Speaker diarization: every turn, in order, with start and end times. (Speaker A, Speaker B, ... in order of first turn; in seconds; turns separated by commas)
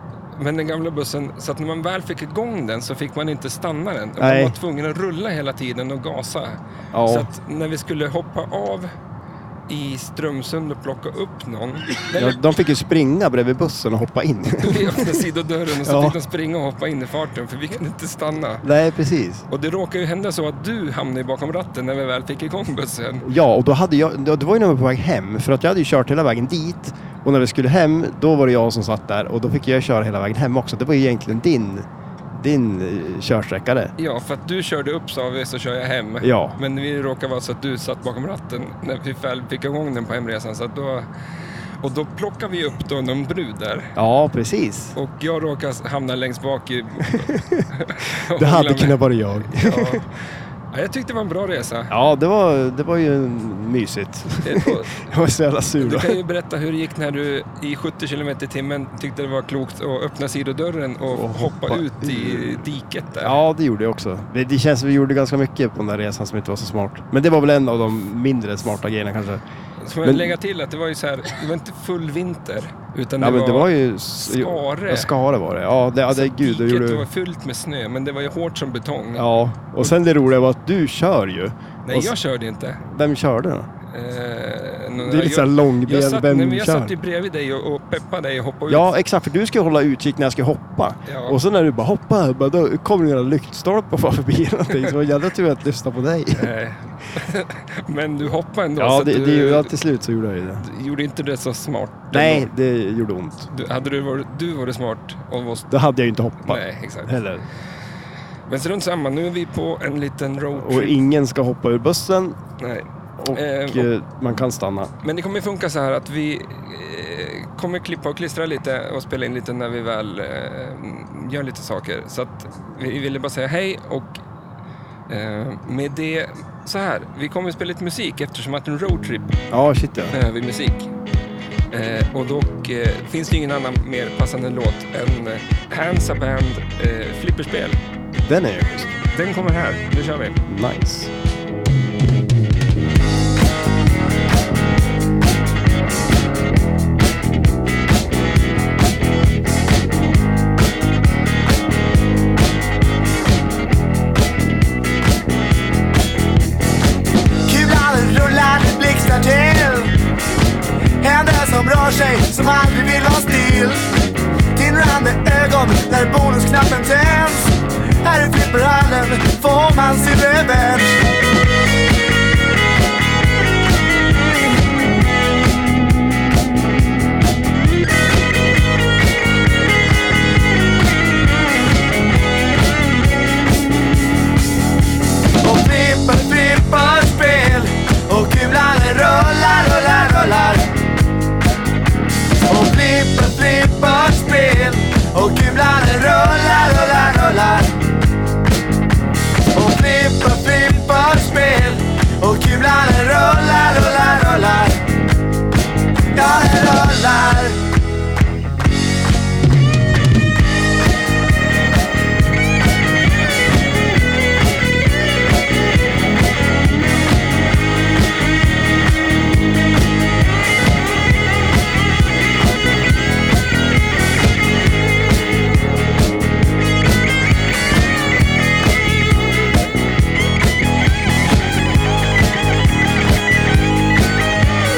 Speaker A: 0.3-8.9, Speaker B: 4.2-4.5, Speaker B: 6.9-7.3, Speaker A: 9.7-12.4, Speaker B: 12.1-15.2, Speaker A: 14.6-18.6, Speaker B: 15.8-16.2, Speaker B: 18.6-19.4, Speaker A: 19.5-23.3, Speaker B: 23.2-33.9, Speaker A: 34.0-41.1, Speaker B: 36.2-36.6, Speaker A: 41.8-43.9, Speaker B: 44.0-44.9, Speaker A: 44.9-50.0, Speaker B: 47.1-47.6, Speaker B: 48.3-50.0, Speaker A: 50.7-51.9, Speaker B: 51.9-56.2, Speaker A: 54.4-55.0, Speaker A: 55.8-63.4, Speaker B: 61.1-62.6, Speaker B: 63.2-69.4, Speaker A: 69.8-75.1, Speaker B: 70.0-70.4, Speaker B: 73.2-77.1, Speaker A: 76.1-79.3, Speaker B: 79.2-82.1, Speaker A: 81.8-82.8, Speaker B: 82.8-83.7, Speaker A: 83.9-88.9, Speaker B: 85.0-86.9, Speaker B: 88.7-96.5, Speaker A: 91.0-91.4, Speaker A: 96.3-99.7, Speaker B: 98.8-100.6, Speaker A: 100.6-102.5, Speaker B: 102.1-103.5, Speaker A: 103.5-105.7, Speaker B: 105.7-107.4, Speaker A: 106.4-107.2, Speaker A: 108.5-111.0, Speaker B: 110.5-112.4, Speaker A: 112.6-113.9, Speaker B: 113.2-114.9, Speaker A: 115.0-124.2, Speaker A: 125.1-129.4, Speaker B: 129.5-130.2, Speaker A: 130.1-130.9, Speaker A: 131.7-137.8, Speaker B: 138.2-138.9, Speaker A: 139.1-140.4, Speaker B: 140.4-141.1, Speaker C: 157.5-159.9, Speaker C: 161.0-163.8, Speaker C: 164.6-171.0, Speaker C: 185.4-190.7, Speaker C: 192.5-197.7, Speaker C: 199.5-204.8, Speaker C: 206.1-207.6